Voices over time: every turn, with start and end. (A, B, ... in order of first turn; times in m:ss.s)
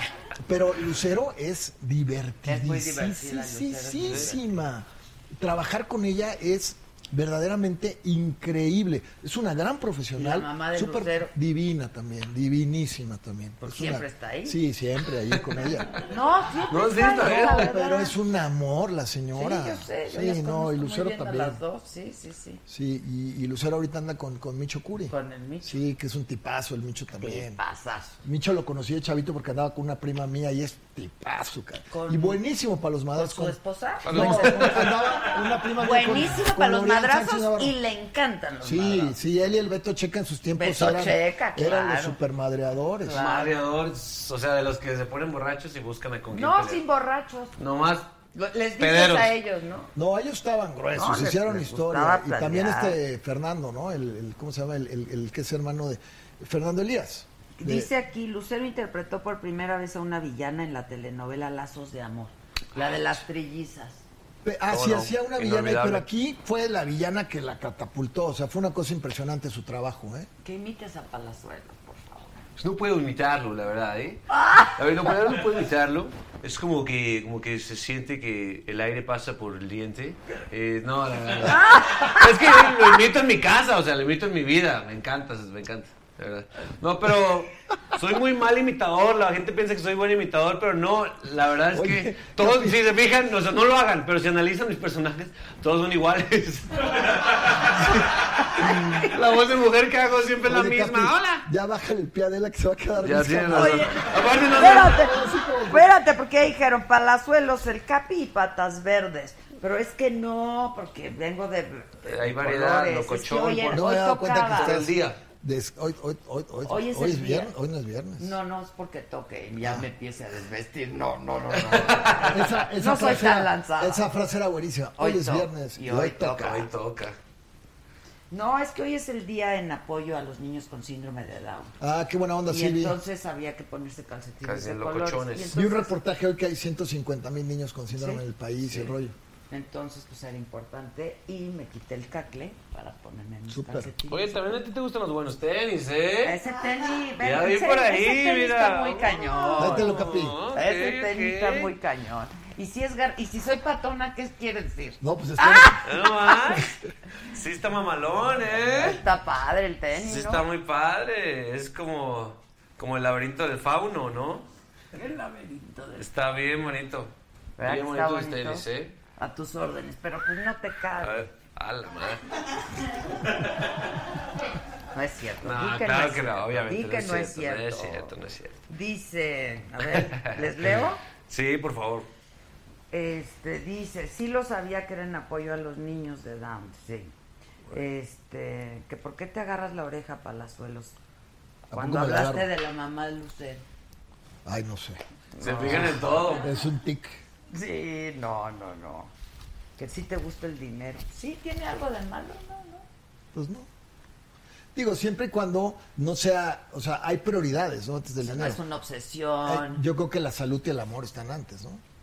0:00.4-0:15.9 A
0:02.4-0:04.5 B
0:10.1-0:11.3 B
0:13.6-0:14.6 B
0:16.0-0:18.2 B
0:16.7-0:17.7 C
0:17.1-0:21.6 A
0:19.3-0:22.6 B
0:22.7-0:27.6 A
0:25.1-0:25.8 B
0:27.2-0:28.1 B
0:28.2-0:37.7 A
0:31.9-0:32.4 B
0:33.1-0:34.8 B
0:34.0-0:35.0 C
0:35.8-0:39.2 B
0:38.6-0:43.2 A
0:40.5-0:42.2 B
0:43.0-0:43.6 B
0:43.1-0:46.8 C
0:46.3-0:47.5 B
0:47.6-0:48.1 C
0:48.3-0:49.9 B
0:48.8-0:49.3 C
0:49.9-0:57.9 A
0:50.9-0:53.0 B
0:57.6-1:04.0 B
1:04.4-1:10.3 A
1:04.7-1:06.0 C
1:10.4-1:12.3 B
1:12.6-1:14.2 C
1:14.4-1:14.7 B
1:14.7-1:38.0 C
1:21.5-1:22.2 B
1:31.7-1:32.8 A
1:38.6-1:41.4 C
1:40.4-1:45.9 A
1:43.0-1:44.9 C
1:43.5-1:54.9 B
1:52.0-1:55.2 C
1:53.7-1:58.3 A
1:56.6-1:57.5 B
1:58.2-2:04.1 B
1:59.6-1:59.8 A
2:01.5-2:02.5 C
2:02.3-2:06.5 A
2:05.0-2:06.7 B
2:06.4-2:07.2 C
2:08.3-2:11.8 B
2:11.8-2:13.0 A
2:12.4-2:16.0 B
2:14.4-2:15.5 C
2:15.5-2:19.1 A
2:17.9-2:18.9 B
2:19.5-2:24.6 B
2:23.5-2:23.9 A
2:24.1-2:26.4 C
2:26.2-2:35.8 B
2:27.2-2:31.7 C
2:29.6-2:30.4 A
2:35.0-2:36.7 A
2:35.8-2:36.7 C
2:37.3-2:39.0 C
2:38.7-2:40.4 B
2:39.9-2:44.5 C
2:44.9-2:46.1 B
2:46.0-2:48.9 C
2:47.6-2:48.6 B
2:49.2-2:51.3 B
2:51.0-2:52.2 C
2:54.9-2:58.1 B
2:55.4-2:58.6 C
2:58.7-3:01.0 B
2:59.8-3:02.1 C
3:02.9-3:07.1 B
3:07.7-3:11.0 B
3:11.7-3:12.5 A
3:11.7-3:13.6 B
3:14.4-3:15.0 A
3:15.3-3:16.4 B
3:15.4-3:16.5 C
3:15.6-3:17.2 A
3:17.5-3:19.1 B
3:19.8-3:22.8 B
3:23.3-3:23.7 A
3:24.7-3:28.6 A
3:28.2-3:29.8 B
3:29.4-3:31.8 A